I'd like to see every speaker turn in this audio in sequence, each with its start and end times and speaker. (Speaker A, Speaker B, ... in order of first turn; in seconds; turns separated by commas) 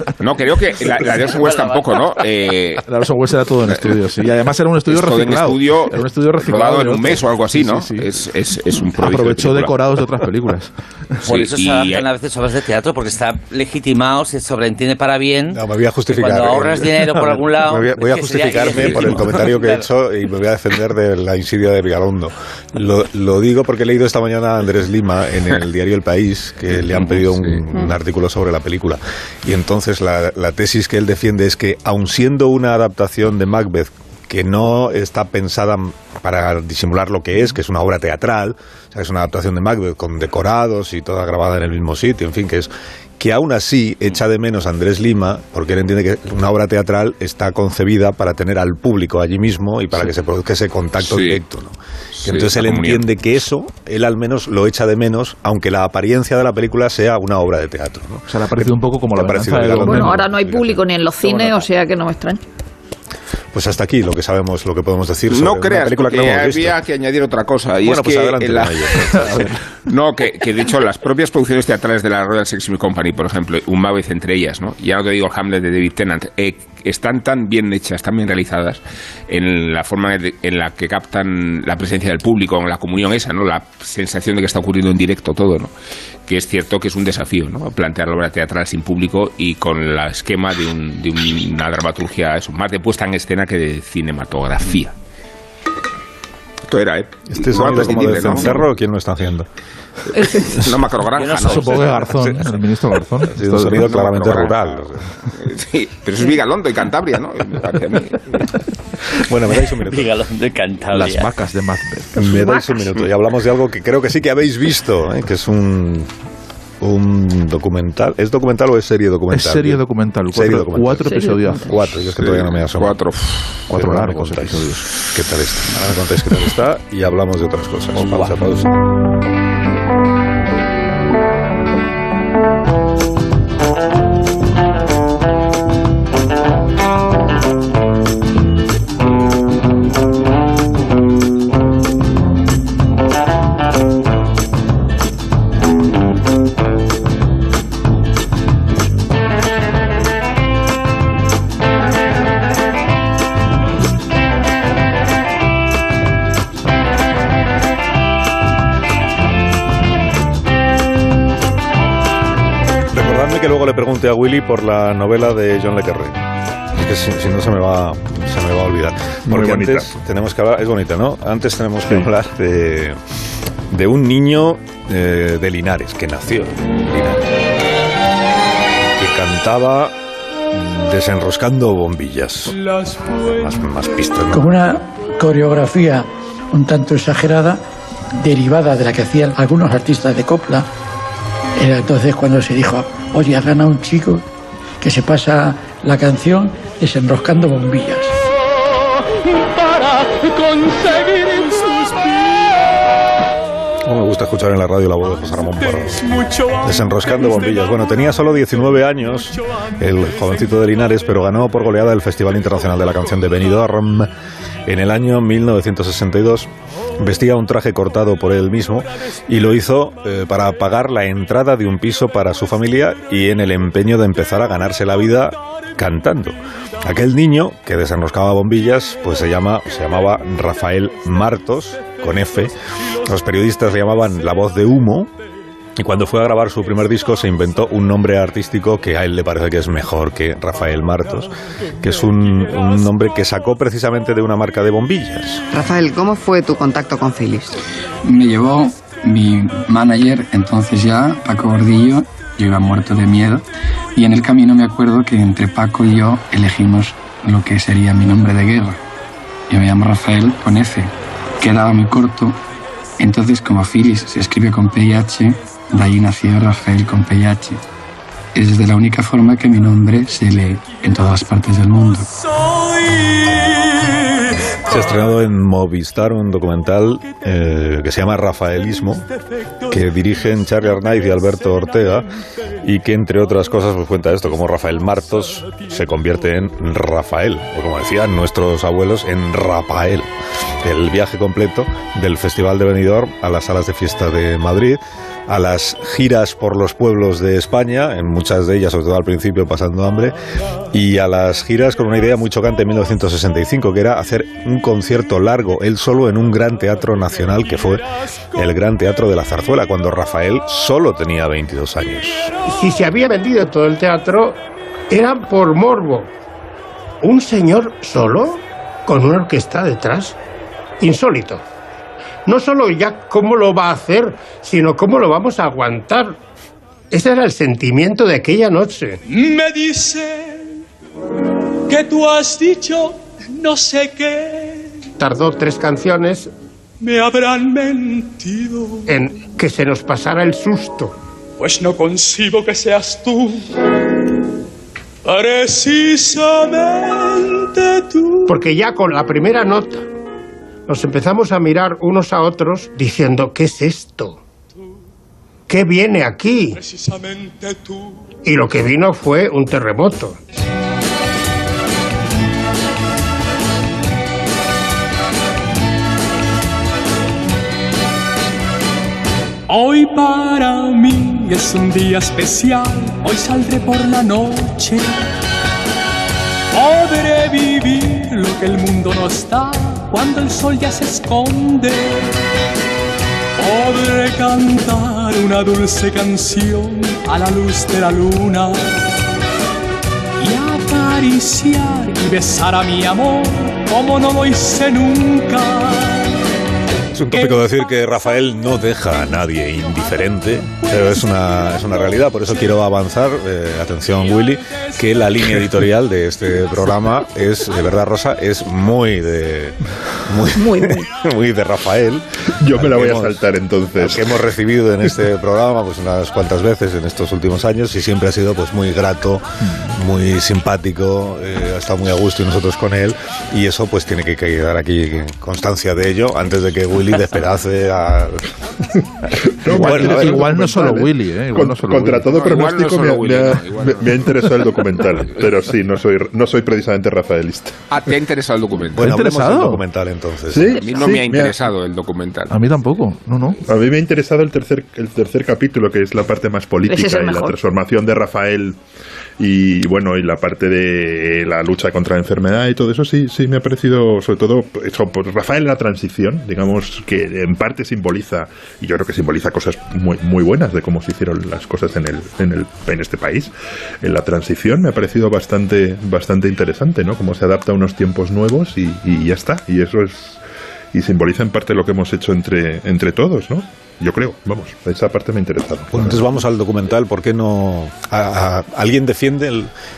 Speaker A: 0.2-2.8, Speaker B: 0.8-1.8, Speaker C: 2.9-8.1, Speaker A: 3.7-4.0, Speaker A: 4.9-9.7, Speaker C: 8.9-11.2, Speaker A: 11.2-12.0, Speaker B: 11.2-19.9, Speaker D: 15.5-61.6, Speaker A: 18.8-19.0, Speaker A: 26.7-27.6, Speaker A: 51.0-51.4, Speaker A: 52.2-53.0, Speaker C: 58.3-60.2, Speaker E: 59.7-62.4, Speaker D: 63.5-66.8, Speaker A: 65.3-69.1, Speaker D: 67.8-69.5, Speaker C: 69.2-69.4, Speaker A: 69.9-85.7, Speaker A: 86.3-94.9, Speaker A: 96.7-98.7, Speaker D: 97.3-99.5, Speaker E: 100.1-100.7, Speaker A: 100.3-102.0, Speaker B: 101.2-102.0, Speaker C: 101.3-103.9, Speaker D: 102.0-102.6, Speaker D: 103.2-105.1, Speaker A: 103.7-108.5, Speaker D: 109.1-110.1, Speaker B: 109.8-111.3, Speaker C: 110.9-112.3, Speaker D: 112.2-116.1, Speaker E: 112.2-113.0, Speaker D: 116.8-123.0, Speaker C: 119.3-121.8, Speaker E: 121.0-121.6, Speaker A: 122.2-123.5, Speaker C: 123.7-124.9, Speaker D: 123.7-128.7, Speaker D: 162.9-173.0, Speaker F: 169.2-169.9, Speaker D: 173.7-177.4, Speaker D: 179.0-179.9, Speaker D: 180.5-182.6, Speaker G: 182.5-183.7, Speaker D: 183.2-184.5, Speaker H: 184.3-187.6, Speaker H: 188.2-190.7, Speaker H: 191.6-194.2, Speaker H: 194.8-198.1, Speaker G: 200.2-202.4, Speaker D: 203.8-206.1, Speaker G: 205.4-208.8, Speaker D: 206.6-214.1, Speaker D: 214.7-235.1, Speaker D: 235.8-245.4, Speaker I: 245.5-247.5, Speaker J: 248.0-253.4, Speaker J: 253.9-258.8, Speaker J: 259.5-262.4, Speaker J: 263.0-267.6, Speaker J: 268.3-272.1, Speaker D: 274.6-279.1, Speaker D: 279.7-282.1, Speaker D: 282.6-290.1, Speaker D: 290.6-300.1, Speaker D: 300.7-312.3, Speaker K: 312.5-316.1, Speaker K: 317.0-320.2, Speaker K: 320.8-321.4, Speaker K: 322.2-326.2, Speaker K: 326.9-329.0, Speaker G: 329.1-330.6, Speaker G: 331.7-334.8, Speaker K: 335.0-336.3, Speaker G: 336.8-338.9, Speaker K: 338.9-340.9, Speaker G: 341.4-343.5, Speaker G: 345.0-348.4, Speaker K: 348.3-349.9, Speaker K: 350.7-354.2, Speaker K: 355.5-356.6, Speaker G: 356.6-358.0, Speaker K: 358.2-360.2, Speaker G: 369.5-375.0, Speaker G: 376.5-382.1, Speaker G: 383.4-388.7, Speaker G: 390.2-396.2, Speaker D: 396.9-413.2, Speaker G: 397.1-397.4, Speaker E: 410.3-410.9, Speaker F: 412.4-414.2, Speaker D: 413.8-428.3, Speaker C: 419.5-419.7, Speaker F: 429.2-437.6, Speaker C: 429.5-432.1, Speaker D: 429.5-430.1, Speaker A: 432.1-434.1, Speaker A: 437.7-439.0, Speaker D: 438.7-440.6, Speaker C: 438.8-439.6, Speaker F: 440.3-441.3, Speaker A: 440.6-442.3, Speaker C: 442.3-443.4, Speaker F: 443.5-448.6, Speaker E: 446.6-447.4, Speaker F: 449.2-470.2, Speaker F: 470.7-476.1, Speaker D: 475.7-479.5